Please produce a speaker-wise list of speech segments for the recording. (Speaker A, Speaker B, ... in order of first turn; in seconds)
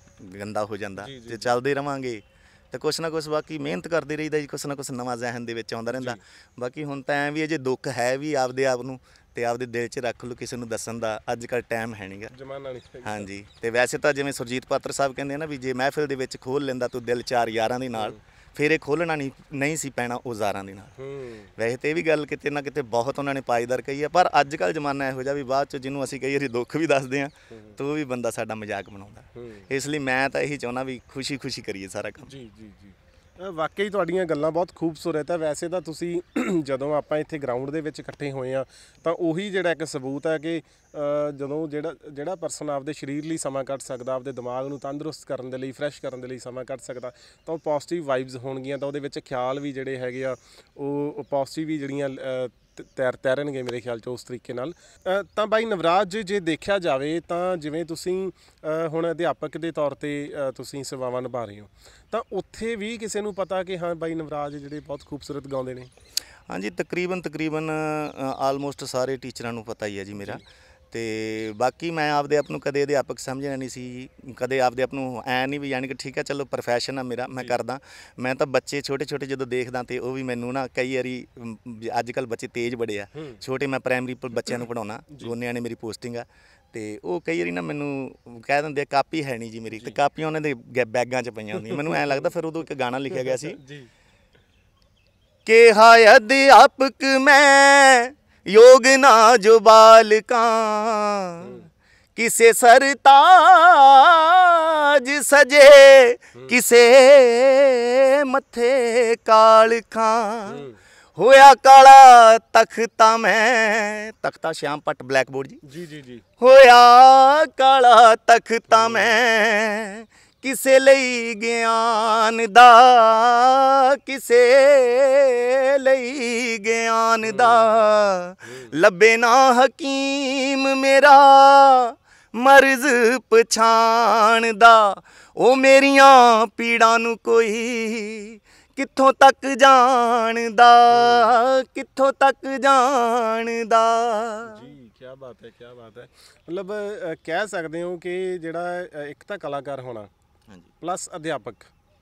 Speaker A: 0.2-12.3, 13.0-20.9, 21.6-32.3, 66.5-93.6, 95.5-101.6, 102.2-115.6, 116.4-144.7
Speaker B: 1.0-1.6, 5.9-6.2, 12.3-13.3, 21.0-21.5, 27.5-27.8, 29.4-29.7, 32.2-65.9, 83.2-83.4, 89.7-90.0, 91.6-92.0, 93.1-93.9, 101.4-101.7, 106.3-106.6, 110.5-110.8, 115.6-116.2, 118.7-119.2, 127.2-128.7, 140.9-141.4, 144.4-150.1, 150.8-151.7